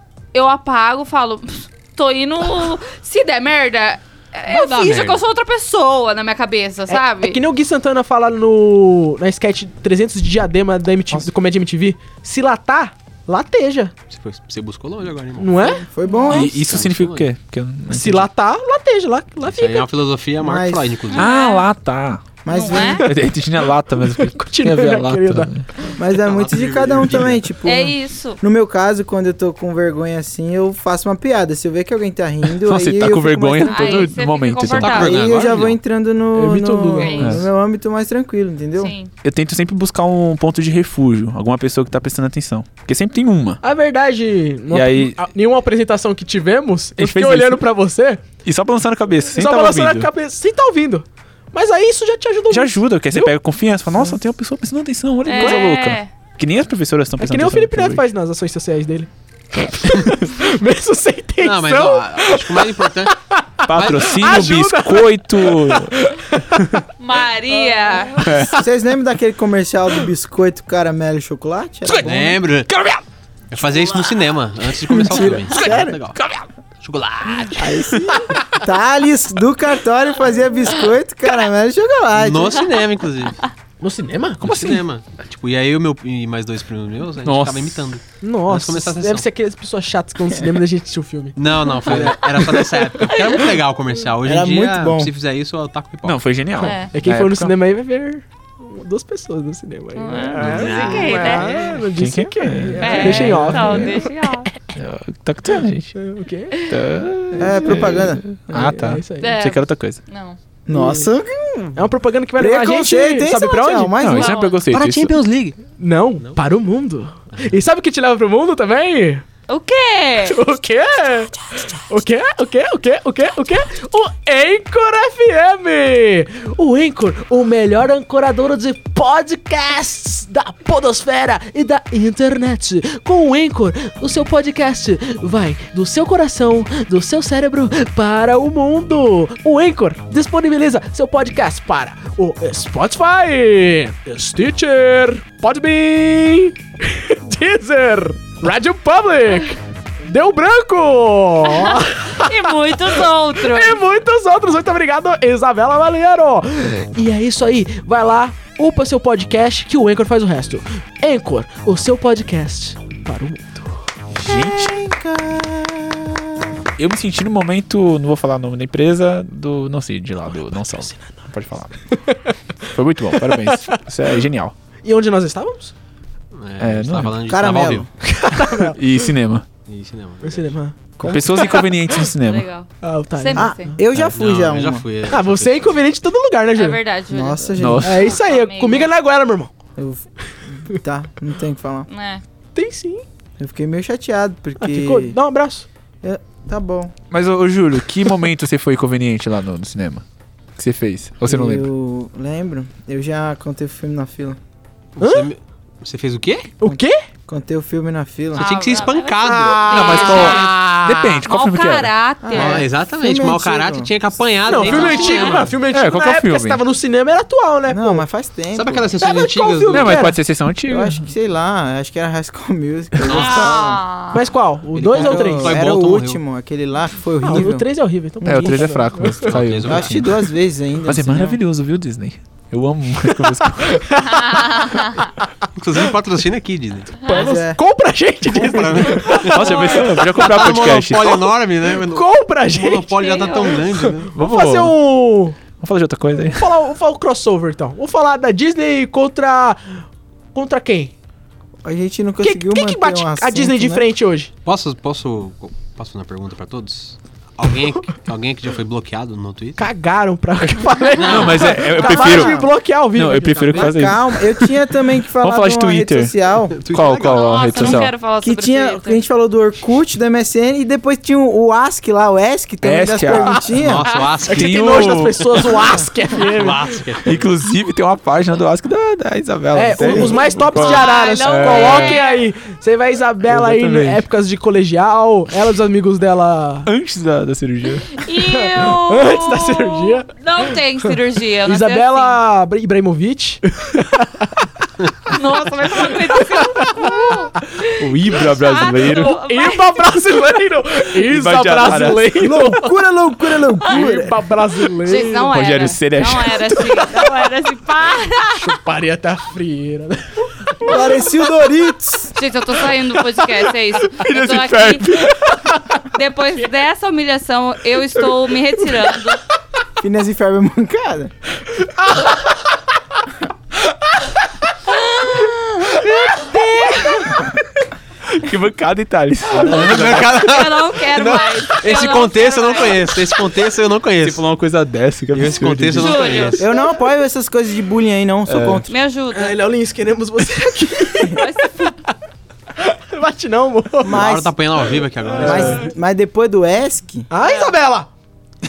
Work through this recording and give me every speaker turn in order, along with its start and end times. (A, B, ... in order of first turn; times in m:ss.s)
0:00.3-0:07.4 A
0:04.5-0:05.2 B
0:06.9-0:13.9 C
0:14.1-0:15.8 B
0:15.4-0:15.8 C
0:15.9-0:16.6 D
0:16.3-0:18.3 E
0:16.4-0:17.3 B
0:17.9-0:19.9 C
0:19.4-0:21.3 B
0:20.4-0:21.0 D
0:21.1-0:21.7 A
0:21.1-0:22.3 E
0:22.4-0:23.1 D
0:22.5-0:23.0 A
0:22.7-0:26.0 C
0:23.0-0:25.7 E
0:26.0-0:34.1 D
0:26.2-0:27.5 B
0:27.6-0:28.4 A
0:32.6-0:35.3 E
0:33.6-0:35.2 A
0:34.8-0:35.8 B
0:35.0-0:38.9 D
0:36.3-0:37.4 C
0:37.0-0:37.4 A
0:38.8-0:39.1 A
0:39.2-0:43.6 E
0:43.6-0:48.3 C
0:44.7-0:45.2 E
0:47.0-0:47.6 E
0:48.4-0:50.1 E
0:49.3-0:53.4 C
0:52.5-0:58.0 E
0:55.2-0:56.1 A
0:57.2-1:06.7 C
1:01.4-1:03.1 B
1:03.7-1:05.9 E
1:03.7-1:04.2 B
1:07.0-1:08.2 A
1:07.5-1:08.6 C
1:08.2-1:08.6 E
1:08.5-1:12.4 D
1:11.9-1:12.9 C
1:12.0-1:12.7 B
1:13.5-1:16.2 B
1:13.9-1:14.1 C
1:14.9-1:15.9 C
1:14.9-1:16.0 D
1:16.2-1:16.5 E
1:16.8-1:17.8 B
1:17.6-1:22.7 D
1:22.2-1:23.4 B
1:23.8-1:24.5 C
1:24.4-1:29.3 B
1:24.4-1:24.8 E
1:27.2-1:27.9 E
1:28.2-1:33.3 C
1:31.4-1:36.2 B
1:34.2-1:35.1 D
1:36.0-1:37.6 E
1:36.6-1:36.9 A
1:36.6-1:44.1 C
1:40.0-1:41.5 A
1:40.4-1:41.8 B
1:41.8-1:44.0 E
1:42.8-1:44.5 A
1:44.8-1:45.9 E
1:46.0-1:49.4 C
1:46.7-1:50.0 E
1:47.4-1:48.2 D
1:49.2-1:50.4 A
1:50.7-1:54.3 D
1:50.7-1:51.1 C
1:51.8-1:54.0 C
1:54.0-1:55.2 E
1:54.1-1:54.6 A
1:54.7-1:55.5 B
1:55.8-1:59.2 C
1:59.5-2:00.4 A
2:00.3-2:43.8 C
2:31.5-2:33.8 A
2:44.2-2:44.7 E
2:44.2-2:46.6 D
2:46.8-2:51.7 E
2:50.8-2:51.2 C
2:52.7-2:54.5 E
2:53.1-2:53.8 C
2:54.8-2:55.7 C
2:56.4-2:57.9 B
2:56.6-2:57.2 E
2:57.3-2:57.9 D
2:58.0-2:58.8 C
2:58.4-2:59.5 E
2:59.7-3:00.6 B
3:00.2-3:02.1 C
3:01.0-3:01.5 D
3:01.0-3:02.5 E
3:02.2-3:03.8 A
3:02.8-3:03.6 C
3:03.4-3:04.9 D
3:04.0-3:05.8 B
3:05.1-3:06.8 C
3:06.6-3:08.9 A
3:07.1-3:08.1 D
3:07.6-3:07.9 E
3:07.8-3:09.5 C
3:09.8-3:11.9 D
3:11.9-3:12.2 A
3:12.5-3:13.1 C
3:13.4-3:15.2 D
3:14.6-3:15.7 C
3:16.0-3:16.9 D
3:17.1-3:20.0 E
3:20.6-3:21.7 E
3:21.3-3:24.4 D
3:25.0-3:26.5 B
3:25.0-3:25.3 C
3:26.6-3:27.0 C
3:26.6-3:28.5 D
3:28.3-3:30.5 A
3:28.4-3:30.5 B
3:29.2-3:31.2 C
3:29.7-3:31.9 E
3:31.2-3:32.6 A
3:32.2-3:33.9 D
3:32.3-3:35.5 B
3:34.5-3:38.0 C
3:34.6-3:35.4 A
3:35.6-3:36.6 E
3:37.7-3:38.9 D
3:38.5-3:40.1 B
3:39.0-3:40.2 C
3:39.7-3:41.0 E
3:40.7-3:43.8 D
3:43.0-3:43.8 B
3:43.1-3:44.2 A
3:44.1-3:45.6 C
3:44.7-3:46.2 B
3:44.9-3:47.7 D
3:47.2-3:49.3 C
3:48.2-3:48.5 D
3:48.2-3:50.1 E
3:49.2-3:50.0 B
3:49.6-3:51.4 D
3:50.8-3:53.8 E
3:53.7-3:54.7 C
3:54.3-3:54.9 A
3:55.6-3:57.0 B
3:57.1-4:00.5 C
3:57.1-3:57.6 D
3:58.3-4:04.2 B
3:59.3-4:01.3 E
4:01.6-4:05.4 C
4:03.0-4:03.6 A
4:04.2-4:04.8 E
4:05.5-4:06.6 E
4:06.2-4:09.8 C
4:10.3-4:10.9 C
4:11.6-4:13.9 D
4:12.2-4:14.3 C
4:14.4-4:19.6 B
4:19.6-4:23.8 C
4:21.0-4:22.4 B
4:21.0-4:24.5 E
4:23.6-4:26.6 D
4:25.1-4:26.1 E
4:26.6-4:27.8 B
4:26.7-4:28.0 E
4:27.0-4:29.0 A
4:28.2-4:33.8 D
4:32.6-4:33.5 E
4:33.5-4:35.0 B
4:34.3-4:36.8 C
4:34.3-4:35.6 E
4:36.2-4:37.2 B
4:37.0-4:42.0 E
4:39.5-4:46.7 C
4:39.8-4:40.1 D
4:40.5-4:42.3 A
4:43.2-4:44.0 E
4:46.7-4:48.0 E
4:48.0-4:52.2 A
4:48.3-4:50.9 C
4:51.4-4:54.5 C
4:55.1-4:59.9 A
4:55.8-4:57.0 C
4:57.8-4:59.2 E
4:58.8-5:02.7 C
5:01.0-5:02.1 E
5:02.1-5:04.3 D
5:03.6-5:05.3 C
5:04.8-5:08.5 A
5:05.2-5:06.9 E
5:08.3-5:11.4 C
5:10.6-5:12.1 D
5:12.2-5:15.0 A
5:13.9-5:15.4 E
5:15.3-5:16.4 C
5:15.9-5:19.2 A
5:18.2-5:19.1 C
5:19.8-5:21.1 D
5:21.6-5:22.4 C
5:24.7-5:25.4 A
5:25.2-5:27.3 C
5:28.1-5:30.2 E
5:29.4-5:34.2 B
5:30.1-5:32.9 A
5:30.9-5:31.5 C
5:34.0-5:36.1 E
5:35.1-5:36.5 B
5:35.8-5:36.5 A
5:36.4-5:38.7 D
5:38.3-5:38.6 E
5:38.7-5:39.4 A
5:39.1-5:41.7 C
5:41.1-5:41.8 A
5:42.6-5:44.1 C
5:43.8-5:44.3 D
5:43.9-5:45.7 B
5:45.1-5:45.7 C
5:45.2-5:47.1 D
5:47.1-5:47.9 C
5:47.2-5:47.6 A